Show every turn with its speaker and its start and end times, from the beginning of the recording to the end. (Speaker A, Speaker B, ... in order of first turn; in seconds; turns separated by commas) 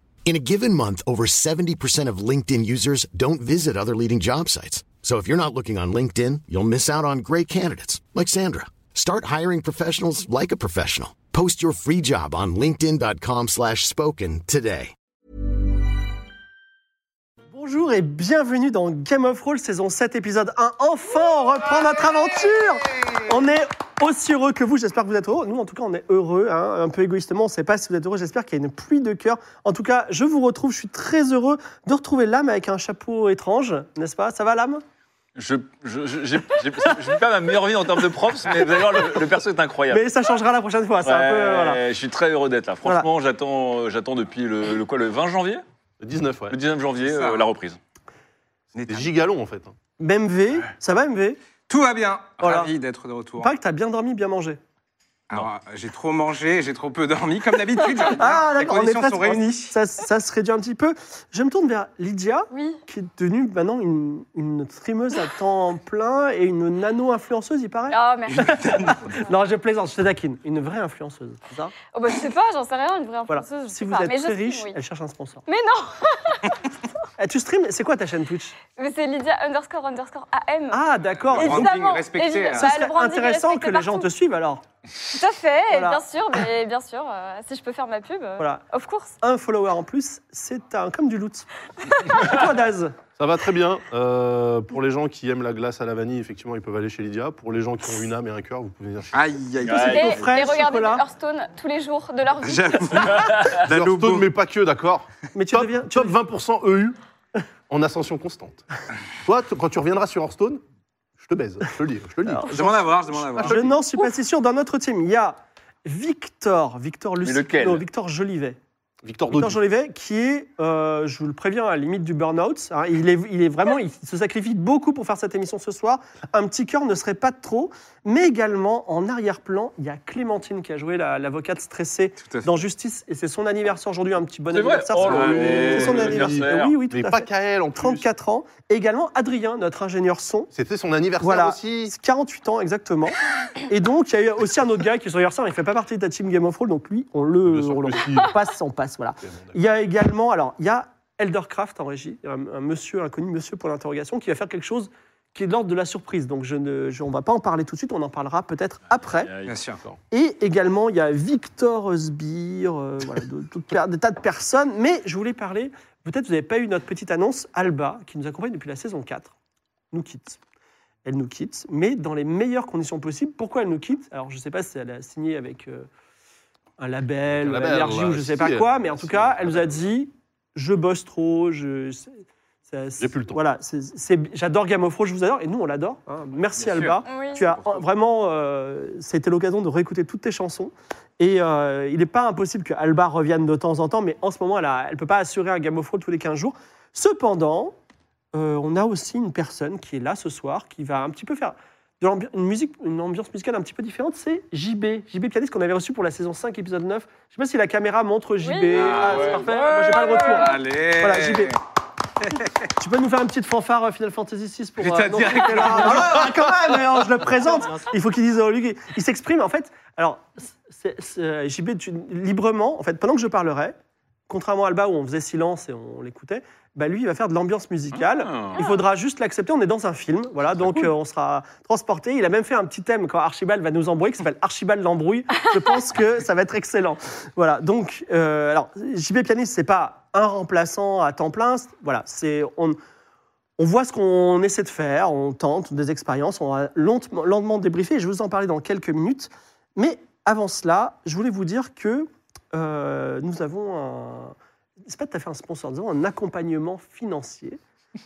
Speaker A: 0.2-14.9, Speaker B: 17.5-34.8, Speaker C: 35.4-40.1, Speaker B: 39.9-41.8, Speaker C: 41.0-45.6, Speaker B: 42.8-43.1, Speaker D: 46.0-46.6, Speaker C: 46.5-47.8, Speaker E: 47.0-47.5, Speaker E: 48.7-49.1, Speaker D: 48.9-49.7, Speaker B: 50.0-51.4, Speaker E: 51.7-53.5, Speaker B: 52.4-52.7, Speaker B: 53.4-54.6, Speaker E: 55.3-59.8, Speaker B: 58.2-71.7, Speaker F: 62.5-62.8, Speaker F: 67.9-69.3, Speaker F: 71.9-74.8, Speaker B: 73.3-75.5, Speaker F: 75.5-76.6, Speaker B: 77.2-78.6, Speaker F: 78.8-80.8, Speaker B: 80.7-81.8, Speaker E: 81.3-82.7, Speaker F: 81.3-84.1, Speaker B: 82.6-84.6, Speaker F: 85.1-89.2, Speaker B: 85.7-86.0, Speaker B: 89.2-93.0, Speaker D: 93.2-99.3, Speaker E: 99.1-100.2, Speaker C: 99.6-100.2, Speaker B: 99.7-101.0, Speaker F: 99.8-103.2, Speaker E: 102.4-104.3, Speaker C: 103.1-103.6, Speaker D: 103.6-107.0, Speaker B: 105.3-106.1, Speaker D: 107.7-108.6, Speaker D: 109.2-110.6, Speaker D: 111.2-113.8, Speaker B: 112.3-112.7, Speaker E: 112.5-113.6, Speaker B: 113.4-118.6, Speaker C: 117.2-117.8, Speaker D: 119.0-119.6, Speaker B: 119.3-140.5, Speaker E: 132.2-132.6, Speaker C: 134.5-136.8, Speaker D: 135.0-138.1, Speaker D: 140.5-141.9, Speaker B: 141.2-159.3, Speaker D: 147.5-148.3, Speaker D: 149.2-149.6, Speaker C: 159.1-159.6, Speaker E: 159.4-159.8, Speaker B: 160.1-169.3, Speaker B: 169.9-170.4, Speaker B: 171.1-175.9, Speaker B: 176.8-197.8, Speaker D: 177.4-179.8, Speaker D: 183.0-183.4, Speaker C: 186.6-187.0, Speaker F: 187.1-187.5, Speaker B: 198.3-211.6, Speaker F: 208.4-210.6, Speaker C: 208.8-210.4, Speaker E: 210.1-211.6, Speaker E: 212.2-212.7, Speaker B: 212.8-223.8, Speaker E: 214.8-216.4, Speaker B: 224.3-242.8, Speaker C: 228.0-228.6, Speaker F: 228.6-228.8, Speaker B: 243.6-254.3, Speaker B: 254.9-257.6